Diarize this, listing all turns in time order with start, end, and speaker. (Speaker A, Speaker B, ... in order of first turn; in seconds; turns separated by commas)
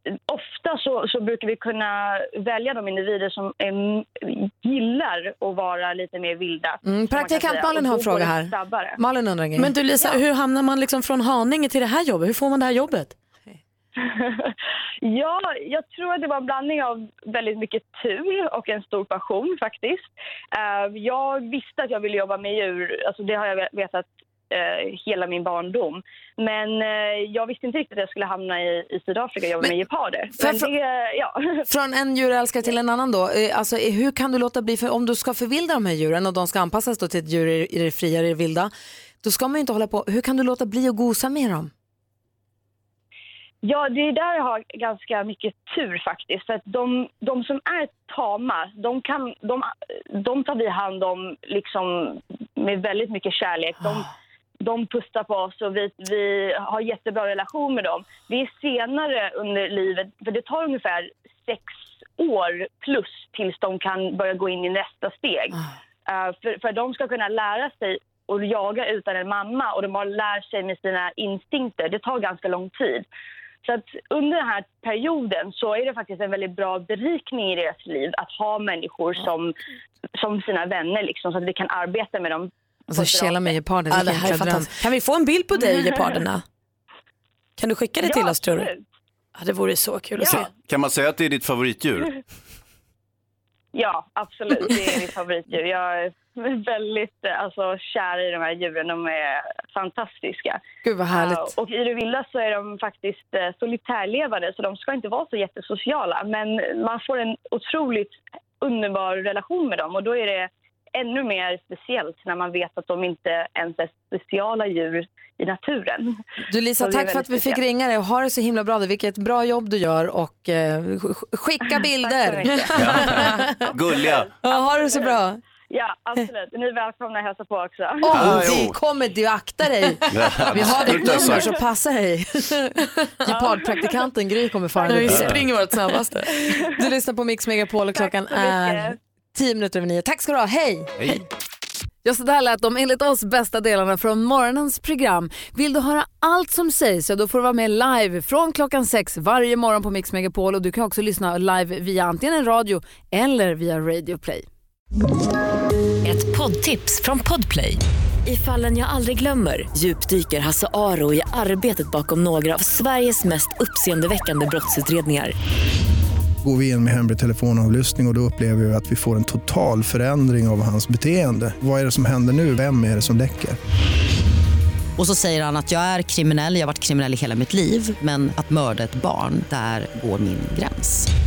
Speaker A: 0.3-9.0, Speaker B: 6.8-9.7, Speaker C: 9.6-13.1, Speaker A: 14.0-31.6, Speaker B: 30.4-30.7, Speaker B: 31.7-38.7, Speaker B: 39.2-41.7, Speaker A: 43.6-54.1, Speaker A: 54.6-73.1, Speaker A: 73.6-79.5, Speaker A: 80.2-83.5, Speaker B: 82.9-84.7, Speaker C: 83.9-86.4, Speaker A: 85.6-86.0, Speaker C: 87.6-88.7, Speaker A: 88.0-88.8, Speaker C: 89.4-90.5, Speaker A: 90.2-90.5, Speaker D: 90.7-92.1, Speaker A: 93.7-100.6, Speaker B: 100.8-101.5, Speaker A: 101.1-116.2, Speaker B: 116.5-123.6, Speaker A: 116.8-117.6, Speaker A: 121.7-125.2, Speaker D: 122.7-124.3, Speaker B: 124.4-125.4, Speaker A: 125.7-128.2, Speaker B: 128.0-135.4, Speaker D: 128.1-128.8, Speaker D: 130.1-131.5, Speaker C: 134.8-136.5, Speaker D: 135.1-135.5, Speaker A: 136.4-136.7, Speaker B: 136.6-141.2, Speaker A: 137.9-139.0, Speaker D: 141.0-141.2, Speaker B: 142.1-154.5, Speaker E: 156.0-165.3, Speaker F: 166.4-173.6, Speaker G: 175.0-180.8